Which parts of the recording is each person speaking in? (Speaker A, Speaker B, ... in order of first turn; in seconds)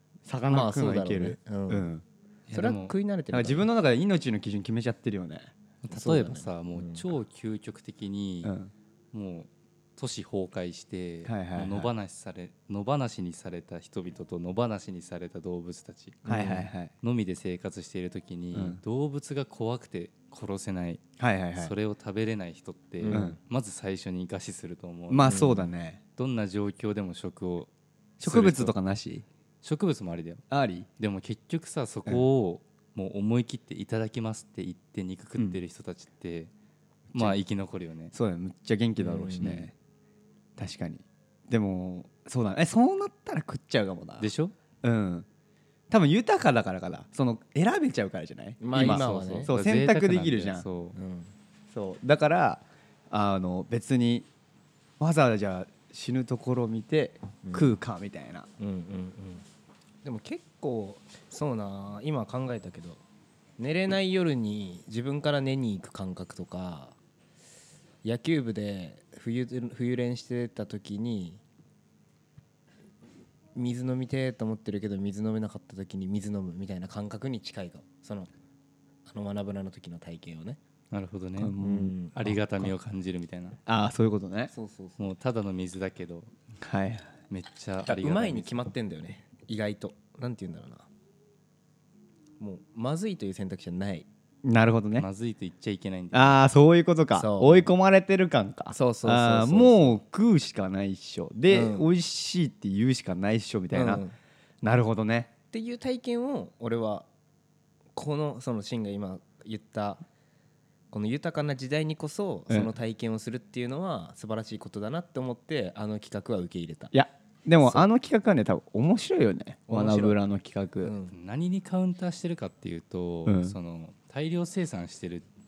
Speaker A: 0.2-2.0, 3.3-5.5, 8.4-8.7, 11.2-11.9, 16.3-16.9, 18.5-18.8, 21.2-21.7, 23.1-23.4, 25.1-26.0, 28.2-29.2, 30.5-30.9, 37.1-37.4, 38.1-39.7, 40.6-44.3, 44.8-45.2, 45.9-50.6, 51.7-54.3, 55.0-58.5, 81.4-82.7, 83.7-84.5, 86.6-87.1, 94.4-95.1, 96.1-104.0, 104.6-105.3, 116.9-120.9, 123.2-123.5
Speaker B: 0.5-1.9, 2.5-3.7, 5.9-7.0, 16.2-16.6, 23.0-23.4, 25.3-25.7, 39.0-39.6, 48.6-49.5, 50.9-51.3, 57.4-57.8, 58.6-59.4, 60.0-63.0, 63.6-67.0, 68.0-71.4, 73.5-78.3, 79.1-80.6, 81.6-82.2, 84.5-85.1, 87.8-90.9, 92.4-94.1, 97.1-97.7, 98.7-100.0, 101.5-101.9, 103.7-104.1, 105.5-107.1, 108.0-110.0, 110.9-116.9, 117.6-117.8, 119.7-120.2, 120.8-121.1
Speaker C: 2.5-2.9, 5.8-8.5, 9.1-16.4, 17.0-21.0, 21.6-25.4, 26.2-28.7, 29.6-30.4, 31.0-36.5, 37.1-38.1, 44.2-44.5, 48.8-51.0, 80.9-81.6, 82.1-83.6, 85.0-86.3, 87.3-88.6, 95.0-96.4, 121.1-125.2